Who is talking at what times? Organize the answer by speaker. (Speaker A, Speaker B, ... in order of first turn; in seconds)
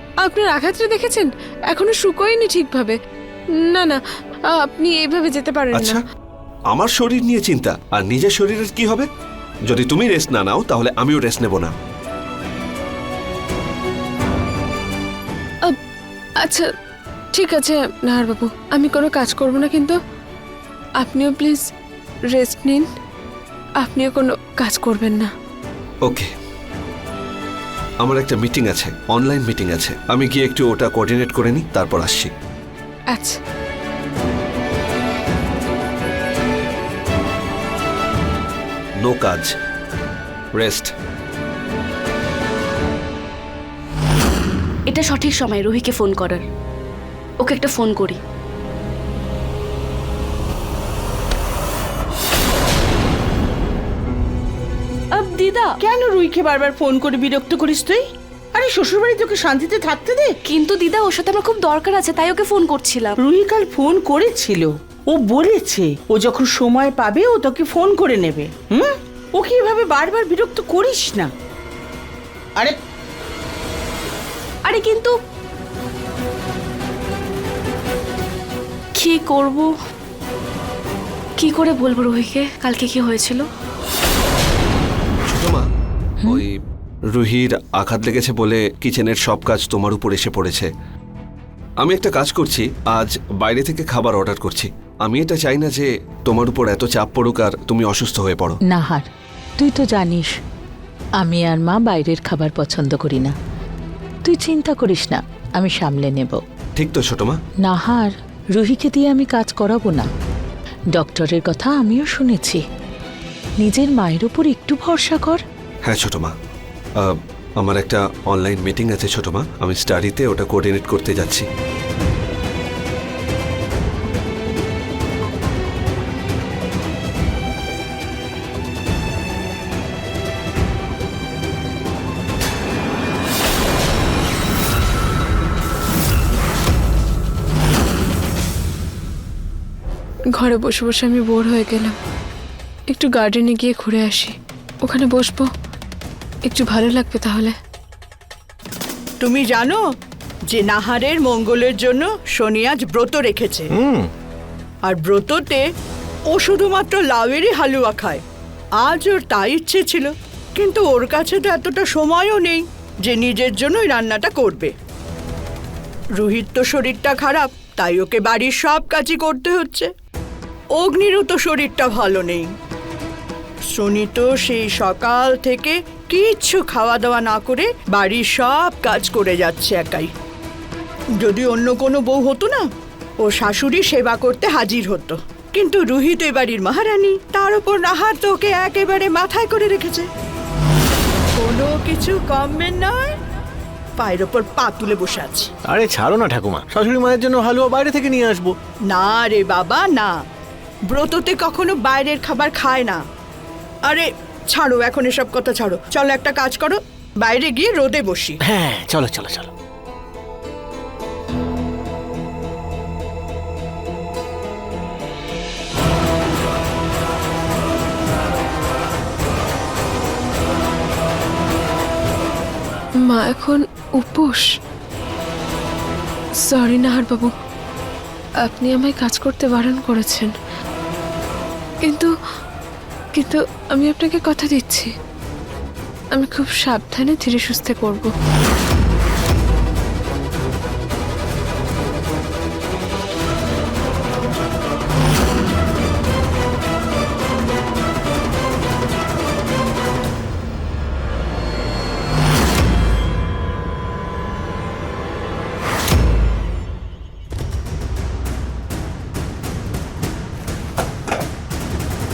Speaker A: 0.2-2.9, 3.6-6.0, 16.4-16.7, 17.3-20.0, 21.0-21.6, 22.3-22.9, 23.8-25.3, 33.1-33.4, 140.3-142.0, 142.9-145.5, 146.5-147.6, 223.0-224.5, 226.4-227.3, 228.4-230.3, 231.8-232.1, 233.1-234.9, 236.1-238.1
Speaker B: 5.7-6.0, 6.7-9.1, 9.7-11.7, 26.0-26.3, 28.0-32.3, 39.0-39.5, 40.5-40.9, 85.3-85.6, 86.2-86.5, 87.1-90.7, 91.8-98.6, 106.8-107.4, 115.8-116.3, 117.0-121.5
Speaker C: 44.9-46.4, 47.4-48.2, 55.1-55.7, 60.5-63.2, 74.6-75.1, 79.0-79.7, 81.4-83.4
Speaker D: 55.8-58.0, 58.5-60.3, 63.2-71.3
Speaker E: 98.7-99.1, 99.6-100.3, 101.2-103.3, 104.2-106.4, 107.6-110.1, 110.9-112.6, 113.6-115.4
Speaker F: 149.2-149.8, 150.5-153.7, 154.8-155.6, 156.3-158.2, 158.8-164.7, 166.2-169.9, 170.8-172.4, 173.7-180.1, 181.2-182.6, 183.2-190.1, 191.3-193.2, 194.0-195.5, 198.9-200.1, 200.9-203.0, 203.9-208.4
Speaker G: 153.7-154.1, 195.7-198.5, 208.4-209.5